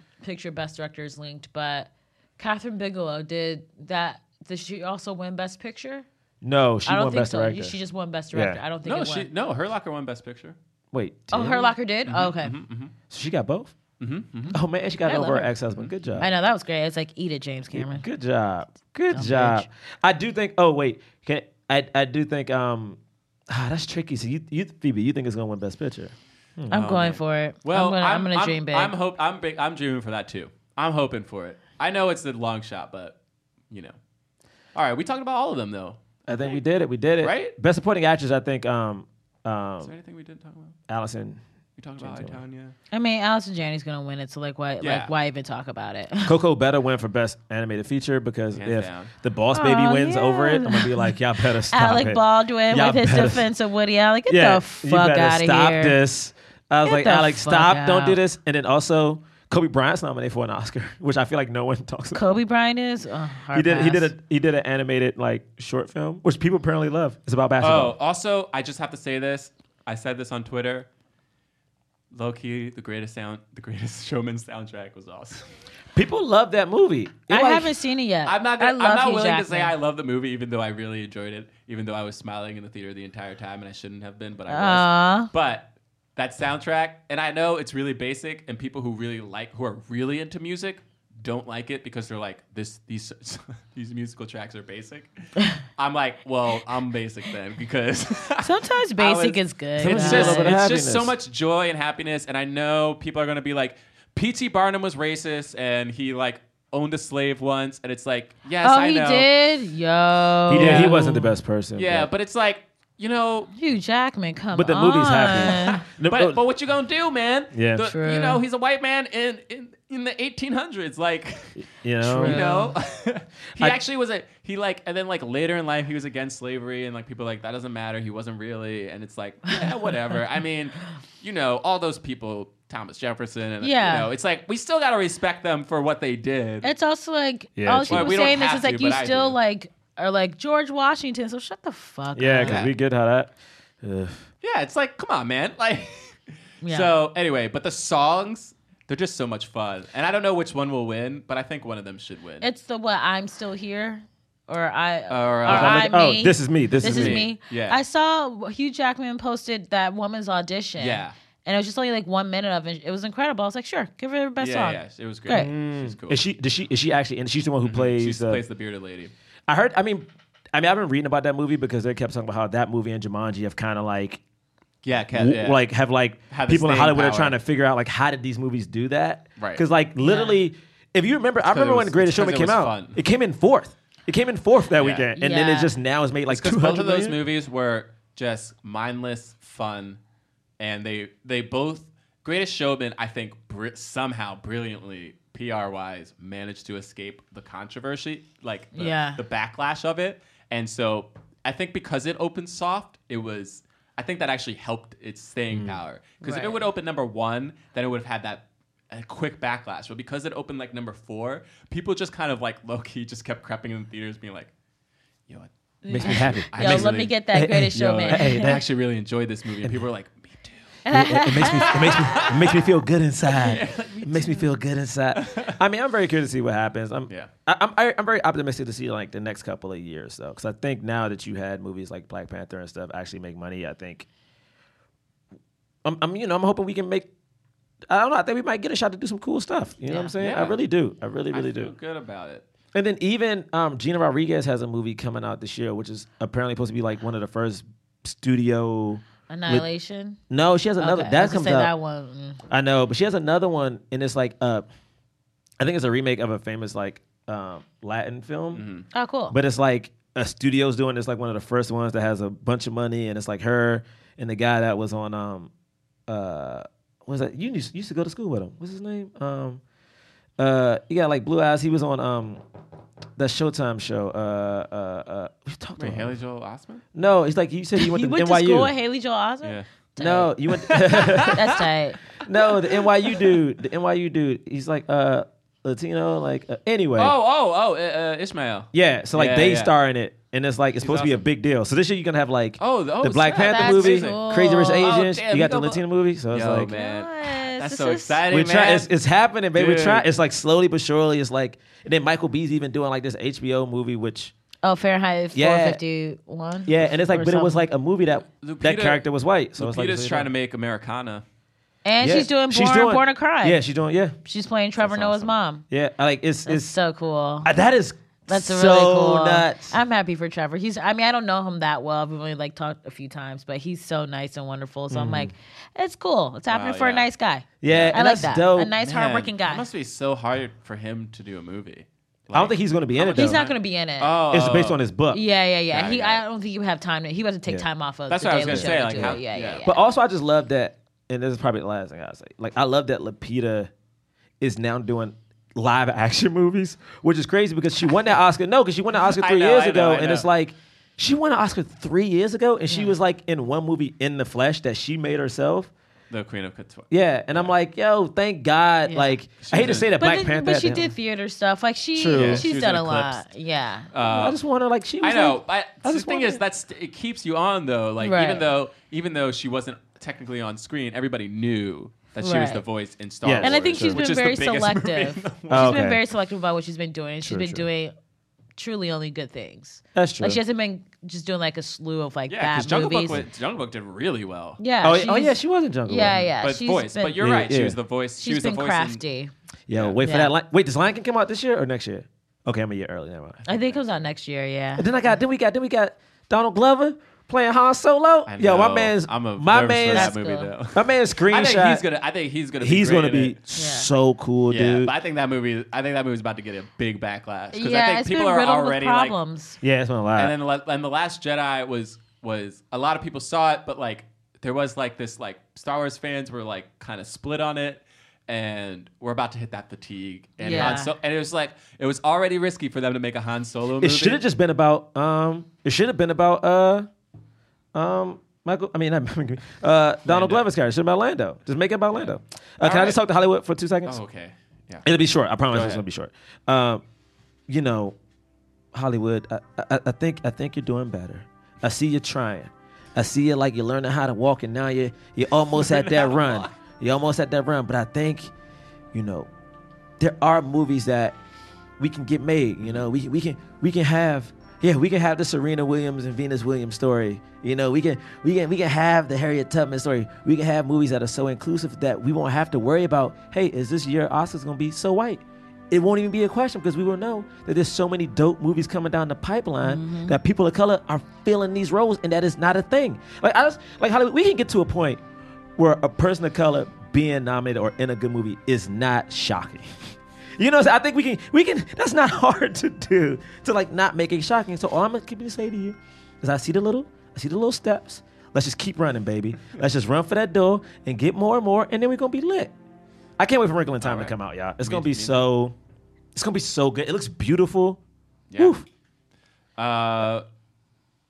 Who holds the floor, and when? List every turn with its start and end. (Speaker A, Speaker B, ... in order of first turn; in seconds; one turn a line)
Speaker A: 0.2-6.1
Speaker B: 6.4-7.8
Speaker A: 6.9-9.3
Speaker B: 8.3-8.6
Speaker C: 8.8-10.6
Speaker B: 10.9-11.7
Speaker A: 11.3-12.6
Speaker C: 12.1-12.9
Speaker B: 13.1-13.7
Speaker C: 14.0-14.6
Speaker B: 14.5-16.3
Speaker A: 15.1-15.5
Speaker A: 16.1-18.1
Speaker B: 17.7-26.8
Speaker A: 19.1-19.7
Speaker A: 26.7-28.9
Speaker C: 26.7-33.2
Speaker C: 33.7-34.0
Speaker C: 34.8-36.0
Speaker B: 36.3-39.9
Speaker C: 37.2-37.5
Speaker C: 39.8-40.8
Speaker B: 40.9-41.4
Speaker C: 41.8-42.8
Speaker B: 42.0-42.4
Speaker A: 42.9-46.4
Speaker C: 44.8-45.1
Speaker B: 46.2-53.5
Speaker C: 48.5-49.1
Speaker A: 49.5-51.1
Speaker A: 51.7-56.0
Speaker B: 54.3-62.2
Speaker A: 56.8-58.2
Speaker A: 62.1-64.1
Speaker B: 63.5-68.0
Speaker C: 67.6-70.9
Speaker C: 72.1-75.5
Speaker B: 76.0-77.7
Speaker A: 77.3-79.7
Speaker C: 78.3-109.3
Speaker A: 84.5-85.3
Speaker A: 98.4-100.5
Speaker B: 99.8-101.1
Speaker A: 108.6-111.3
Speaker B: 110.5-112.1
Speaker C: 110.5-111.0
Speaker C: 111.8-113.5
Speaker A: 113.5-115.8
Speaker B: 114.5-116.4
Speaker C: 115.4-136.7
Speaker B: 117.5-117.9
Speaker A: 117.8-118.4
Speaker B: 121.6-122.4
Speaker A: 122.1-122.8
Speaker A: 133.6-134.1
Speaker A: 136.6-142.6
Speaker B: 137.6-138.1
Speaker C: 137.9-139.4
Speaker B: 142.2-144.2
Speaker C: 142.4-142.7
Speaker C: 144.4-146.2
Speaker A: 146.6-146.9
Speaker C: 146.7-152.5
Speaker A: 152.4-165.5
Speaker C: 155.1-155.9
Speaker B: 155.5-157.2
Speaker C: 156.8-157.8
Speaker C: 160.8-161.1
Speaker C: 164.4-166.2
Speaker B: 165.3-168.4
Speaker C: 167.6-169.1
Speaker B: 169.5-174.2
Speaker C: 174.8-175.6
Speaker B: 175.1-187.2
Speaker C: 176.3-177.4
Speaker C: 179.4-179.6
Speaker A: 180.0-180.4
Speaker C: 181.4-183.0
Speaker C: 184.8-185.1
Speaker A: 185.2-185.8
Speaker C: 186.3-190.0
Speaker C: 190.6-214.5
Speaker A: 198.8-199.2
Speaker B: 205.5-205.8
Speaker A: 206.2-206.6
Speaker C: 215.3-217.2
Speaker A: 215.8-218.6
Speaker B: 215.9-218.6
Speaker C: 217.7-220.7
Speaker A: 220.9-222.3
Speaker B: 220.9-234.1
Speaker C: 221.4-222.7
Speaker C: 223.3-224.5
Speaker C: 225.1-225.6
Speaker B: 235.8-237.1
Speaker B: 237.9-241.7
Speaker A: 239.9-240.1
Speaker C: 240.2-240.6
Speaker C: 241.3-242.4
Speaker B: 242.7-249.7
Speaker A: 249.3-250.2
Speaker B: 250.3-251.7
Speaker A: 250.8-252.4
Speaker B: 252.5-254.7
Speaker B: 255.6-258.6
Speaker C: 258.5-258.9
Speaker A: 258.9-259.4
Speaker B: 259.3-265.5
Speaker B: 266.1-269.6
Speaker B: 270.4-272.4
Speaker B: 273.2-276.2
Speaker C: 275.8-276.8
Speaker B: 276.9-278.7
Speaker A: 277.8-280.3
Speaker B: 280.0-281.4
Speaker C: 280.5-281.7
Speaker A: 280.9-282.0
Speaker B: 282.2-287.1
Speaker C: 282.3-283.4
Speaker C: 287.0-289.7
Speaker B: 288.7-296.7
Speaker C: 290.8-291.2
Speaker C: 292.6-298.9
Speaker A: 293.4-294.9
Speaker A: 296.7-298.2
Speaker B: 298.3-304.3
Speaker C: 299.5-300.1
Speaker A: 304.6-307.7
Speaker B: 305.3-305.8
Speaker B: 306.7-310.3
Speaker C: 308.4-309.0
Speaker C: 309.6-311.2
Speaker A: 311.9-313.6
Speaker B: 312.0-314.2
Speaker A: 314.2-315.6
Speaker C: 314.8-315.3
Speaker B: 315.7-316.8
Speaker A: 316.5-317.5
Speaker B: 317.4-319.8
Speaker A: 318.3-329.6
Speaker B: 324.9-325.3
Speaker C: 326.5-327.1
Speaker B: 327.6-328.7
Speaker C: 327.7-328.0
Speaker C: 328.8-334.8
Speaker B: 332.3-333.4
Speaker A: 333.1-334.1
Speaker B: 334.3-335.2
Speaker A: 335.1-339.8
Speaker C: 335.7-336.2
Speaker C: 338.1-339.6
Speaker B: 338.5-343.7
Speaker B: 344.4-355.7
Speaker C: 349.0-350.3
Speaker A: 352.7-352.9
Speaker C: 356.1-357.5
Speaker B: 356.9-360.9
Speaker A: 358.9-359.2
Speaker C: 359.4-359.9
Speaker A: 360.0-363.9
Speaker B: 361.9-362.5
Speaker C: 362.1-363.2
Speaker C: 363.9-364.4
Speaker B: 364.0-366.4
Speaker C: 365.0-376.0
Speaker A: 368.0-368.5
Speaker A: 372.2-372.6
Speaker B: 373.2-374.0
Speaker A: 373.4-377.9
Speaker B: 375.5-376.0
Speaker B: 377.2-377.7
Speaker A: 378.6-383.2
Speaker B: 379.9-380.4
Speaker C: 382.3-384.6
Speaker A: 384.6-387.2
Speaker B: 384.8-386.2
Speaker C: 386.4-389.0
Speaker B: 387.2-387.8
Speaker A: 388.2-389.3
Speaker B: 389.7-393.4
Speaker C: 389.7-390.0
Speaker A: 390.0-390.3
Speaker C: 393.4-394.1
Speaker A: 393.5-395.2
Speaker B: 394.8-400.1
Speaker C: 398.3-403.4
Speaker A: 399.9-400.5
Speaker B: 400.7-401.9
Speaker B: 402.6-404.9
Speaker A: 403.6-403.9
Speaker C: 404.5-409.2
Speaker A: 407.5-409.6
Speaker B: 409.6-410.4
Speaker C: 410.2-424.2
Speaker A: 420.4-420.9
Speaker B: 420.5-420.8
Speaker B: 423.8-426.9
Speaker B: 427.7-434.0
Speaker C: 430.1-430.4
Speaker C: 432.6-433.0
Speaker C: 433.9-434.9
Speaker B: 434.8-436.8
Speaker C: 435.5-435.8
Speaker B: 437.5-438.0
Speaker B: 438.7-448.3
Speaker C: 445.5-446.5
Speaker B: 448.9-449.3
Speaker B: 450.0-451.2
Speaker B: 451.8-475.0
Speaker A: 469.6-470.2
Speaker B: 475.6-479.8
Speaker B: 480.4-492.5
Speaker B: 493.2-495.6
Speaker C: 493.8-495.2
Speaker B: 496.1-497.8
Speaker C: 498.3-498.6
Speaker B: 498.4-498.6
Speaker C: 499.6-500.2